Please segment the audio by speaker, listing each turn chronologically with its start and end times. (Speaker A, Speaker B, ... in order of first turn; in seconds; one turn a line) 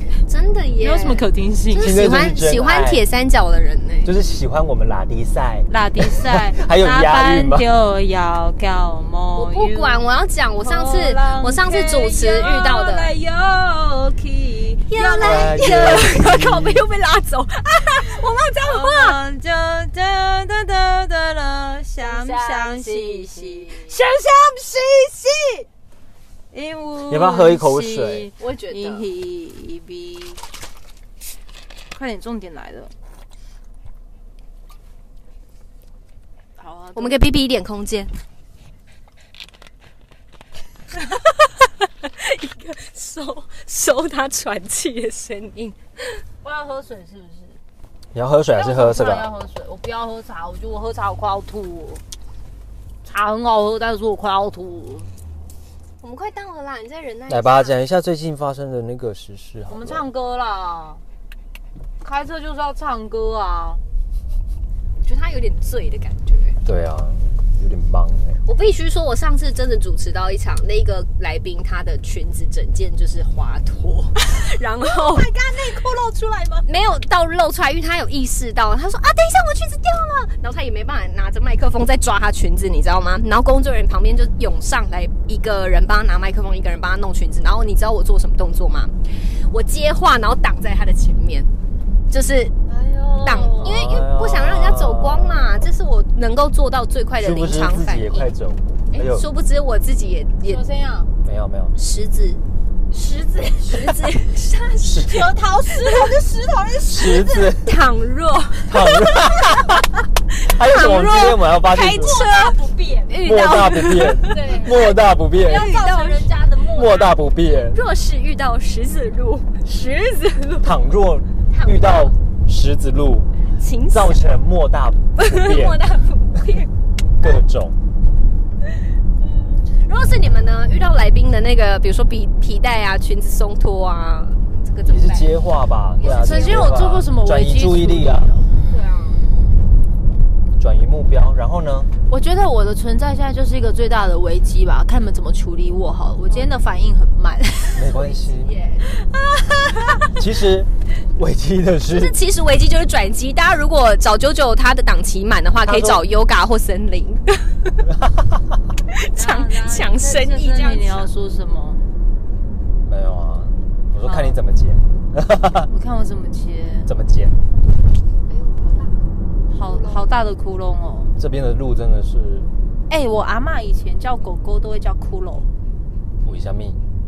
Speaker A: 0.2-4.1
Speaker B: 0.8-1.9
Speaker C: 1.8-3.0
Speaker C: 4.0-7.7
Speaker B: 5.7-10.1
Speaker A: 9.3-13.1
Speaker B: 10.6-16.2
Speaker A: 14.9-19.2
Speaker C: 15.2-16.8
Speaker B: 18.6-25.6
Speaker A: 22.0-24.0
Speaker B: 26.5-30.4
Speaker C: 27.1-28.3
Speaker A: 28.4-29.1
Speaker B: 31.9-32.9
Speaker B: 36.6-37.2
Speaker A: 37.0-38.1
Speaker A: 41.2-46.2
Speaker B: 46.4-47.6
Speaker C: 48.1-49.3
Speaker B: 48.5-52.0
Speaker B: 53.0-55.1
Speaker A: 56.0-57.8
Speaker C: 57.3-60.0
Speaker B: 59.7-61.0
Speaker B: 62.0-63.8
Speaker A: 65.0-66.6
Speaker C: 66.6-68.4
Speaker A: 68.5-75.3
Speaker B: 74.8-76.7
Speaker A: 76.7-91.5
Speaker A: 92.1-92.5
Speaker B: 92.7-93.9
Speaker A: 93.2-98.3
Speaker C: 93.6-95.7
Speaker C: 97.2-99.2
Speaker A: 98.9-100.6
Speaker B: 100.4-101.1
Speaker C: 101.2-101.7
Speaker A: 101.8-102.4
Speaker B: 102.9-103.9
Speaker A: 103.6-106.1
Speaker C: 104.8-105.2
Speaker B: 105.0-107.5
Speaker C: 106.9-107.8
Speaker A: 107.6-108.9
Speaker C: 108.7-109.8
Speaker A: 110.4-116.5
Speaker C: 110.4-112.2
Speaker B: 111.7-113.1
Speaker C: 113.2-115.7
Speaker B: 114.3-117.1
Speaker C: 116.7-117.8
Speaker A: 117.7-120.8
Speaker C: 120.6-123.3
Speaker A: 121.5-122.1
Speaker A: 123.6-124.2
Speaker C: 123.9-125.8
Speaker A: 125.2-126.7
Speaker C: 127.2-127.8
Speaker A: 129.5-135.4
Speaker C: 134.8-138.3
Speaker A: 136.0-136.8
Speaker B: 136.0-138.5
Speaker A: 138.7-139.3
Speaker C: 140.6-141.9
Speaker B: 142.1-148.0
Speaker A: 146.3-146.5
Speaker C: 147.8-148.5
Speaker A: 147.8-149.0
Speaker B: 148.9-150.1
Speaker C: 150.1-152.2
Speaker A: 151.9-157.8
Speaker C: 155.6-156.0
Speaker A: 158.9-161.1
Speaker B: 159.1-161.8
Speaker C: 162.8-165.7
Speaker B: 164.0-164.4
Speaker B: 165.7-166.9
Speaker C: 166.8-167.3
Speaker A: 168.3-170.1
Speaker B: 169.5-171.1
Speaker C: 171.2-172.5
Speaker B: 172.9-175.5
Speaker C: 176.2-176.8